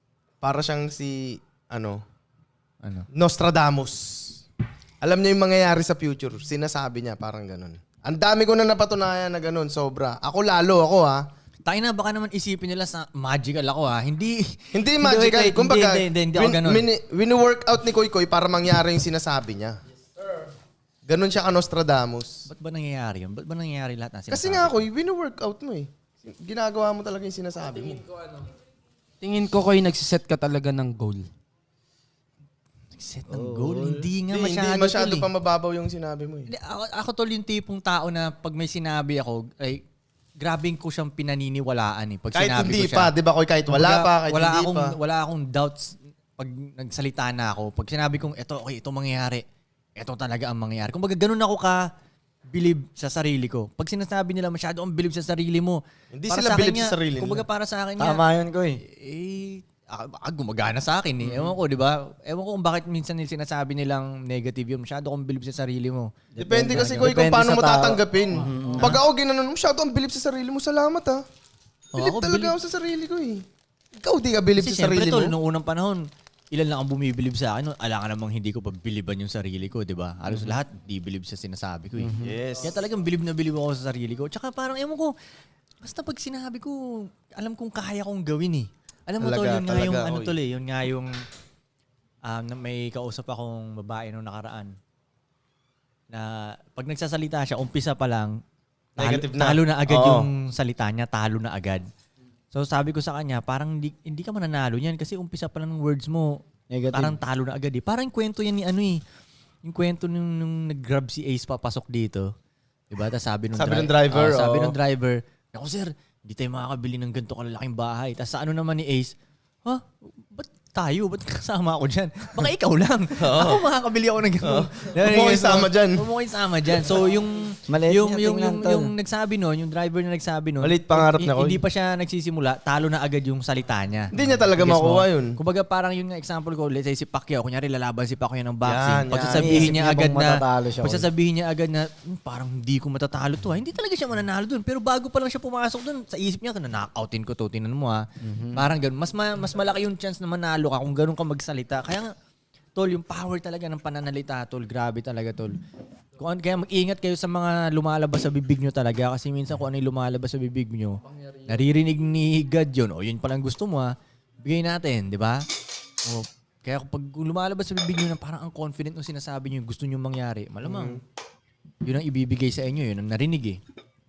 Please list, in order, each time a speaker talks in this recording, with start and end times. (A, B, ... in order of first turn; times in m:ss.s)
0:00.4-0:02.0 A
0:03.1-0:04.3 A
0:05.0-0:11.2 A
0:11.7-0:16.9 B
0:14.7-0:19.8 A
0:21.1-0:22.4 A
0:22.5-0:24.8 B
0:24.3-0:28.0 A
0:29.2-0:31.3 C
0:33.0-0:35.3 B
0:33.3-0:34.1 D
0:34.3-0:36.5 A
0:36.5-0:39.8 B
0:40.4-0:43.1 B
0:42.4-0:45.0 A
0:43.7-0:49.4 B
0:50.0-0:51.8 B
0:52.5-0:58.2 B
0:56.1-0:57.4 A
0:58.0-0:58.8 D
0:58.8-1:06.1 B
1:06.4-1:09.0 D
1:06.4-1:11.2 A
1:06.7-1:07.1 B
1:12.0-1:12.6 B
1:12.0-1:13.4 A
1:14.0-1:15.4 A
1:14.6-1:25.1 B
1:22.0-1:22.4 D
1:22.2-1:22.7 A
1:25.8-1:31.1 B
1:29.2-1:30.4 A
1:32.3-1:34.7 B
1:36.1-1:38.3 B
1:39.0-1:40.3 A
1:39.0-1:41.8 B
1:42.5-1:46.4 B
1:46.7-1:47.2 D
1:46.9-1:49.0 B
1:49.6-1:52.3 B
1:52.9-1:59.1 B
1:53.6-1:54.8 A
1:59.6-2:32.1 B
2:03.2-2:03.6 A
2:04.4-2:06.0 A
2:07.7-2:08.9 D
2:10.6-2:11.6 A
2:14.1-2:15.4 A
2:18.6-2:19.8 A
2:19.4-2:21.1 D
2:28.2-2:28.7 D
2:32.8-2:35.6 B
2:36.2-2:45.4 B
2:46.1-2:51.0 B
2:50.6-2:51.0 A
2:51.8-2:53.6 B